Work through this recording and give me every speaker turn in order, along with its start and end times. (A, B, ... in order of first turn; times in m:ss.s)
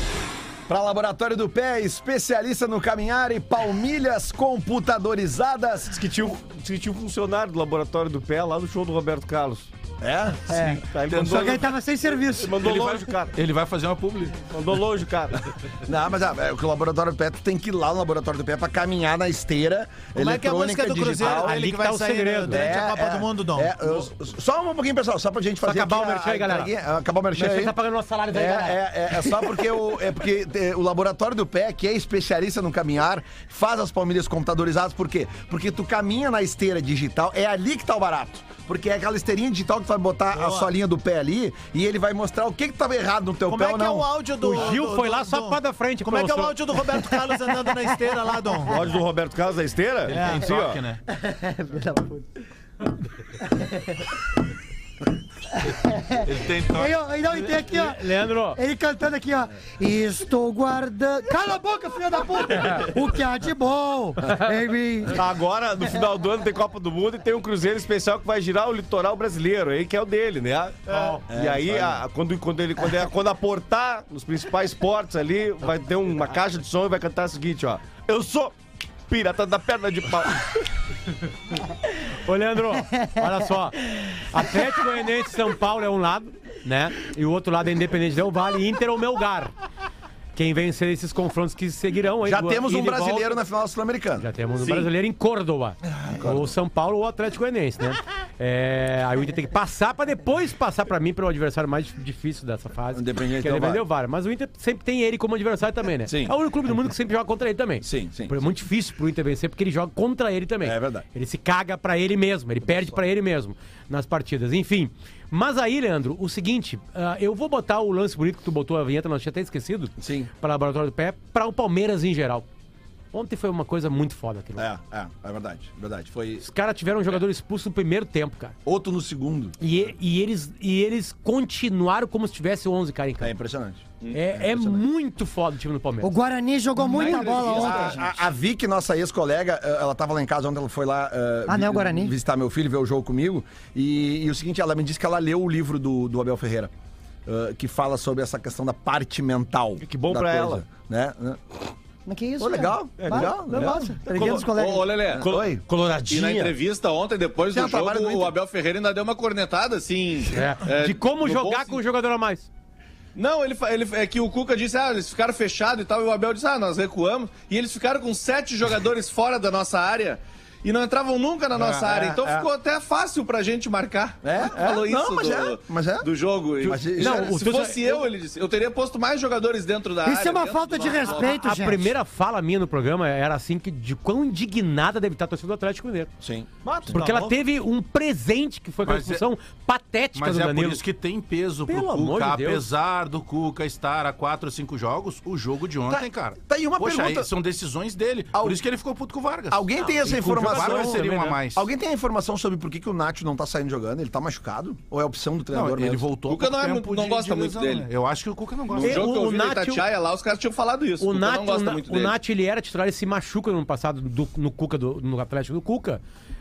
0:00.7-0:06.0 A
0:05.9-0:09.7 B
0:10.0-0:10.7 A
0:10.5-0:12.7 C
0:10.9-0:11.7 B
0:11.1-0:11.7 D
0:12.3-0:13.3 B
0:12.5-0:14.4 D
0:14.5-0:15.4 B
0:15.8-0:21.6 A
0:20.1-0:23.8 E
0:21.2-0:22.6 F
0:22.5-0:27.7 A
0:25.6-0:26.7 F
0:27.3-0:28.8 F
0:28.3-0:44.1 A
0:40.3-0:40.7 E
0:43.4-0:48.9 E
0:44.4-0:46.6 F
0:47.5-0:48.1 C
0:48.6-0:50.8 B
0:50.1-0:51.0 D
0:50.1-0:50.4 E
0:51.1-0:52.2 C
0:53.5-0:53.9 C
0:55.7-0:56.2 C
0:56.2-0:57.0 D
0:56.7-1:05.2 C
0:57.6-0:58.6 F
1:05.1-1:18.5 B
1:10.8-1:11.2 E
1:10.9-1:11.2 F
1:11.3-1:12.0 A
1:19.1-1:20.4 B
1:22.2-1:29.5 F
1:30.3-1:33.4 F
1:32.2-1:34.9 A
1:34.2-2:02.4 F
1:35.8-1:36.5 A
1:42.9-1:43.8 A
1:46.0-1:46.4 A
1:47.8-1:48.4 A
1:50.6-1:51.0 A
2:00.0-2:00.3 A
2:03.1-2:04.6 F
2:04.6-2:06.4 A
2:06.4-2:08.5 F
2:08.6-2:09.9 A
2:09.6-2:13.3 F
2:13.2-2:14.8 A
2:14.1-2:16.2 F
2:16.0-2:18.1 C
2:16.9-2:17.9 G
2:17.0-2:26.7 A
2:21.5-2:22.1 C
2:27.2-2:31.6 A
2:29.8-2:30.6 B
2:32.0-2:35.0 C
2:32.4-2:34.4 A
2:33.0-2:34.5 B
2:34.2-2:35.3 G
2:35.1-2:35.6 A
2:35.1-2:36.6 B
2:36.0-2:41.8 G
2:37.5-2:38.3 A
2:40.3-2:42.5 F
2:43.1-3:01.4 G
2:51.5-2:51.8 D
2:51.7-2:52.5 A
2:54.2-2:57.4 A
2:56.9-2:58.1 F
3:00.0-3:01.9 C
3:01.0-3:06.1 F
3:06.2-3:06.9 A
3:06.6-3:07.4 E
3:06.9-3:10.8 F
3:08.8-3:09.2 D
3:10.1-3:21.7 D
3:11.7-3:12.6 F
3:15.9-3:17.3 A
3:18.3-3:18.6 A
3:19.5-3:26.1 A
3:19.8-3:21.4 F
3:25.5-3:29.1 D
3:26.3-3:27.9 G
3:28.8-3:29.8 F
3:28.8-3:32.1 G
3:31.0-3:36.0 F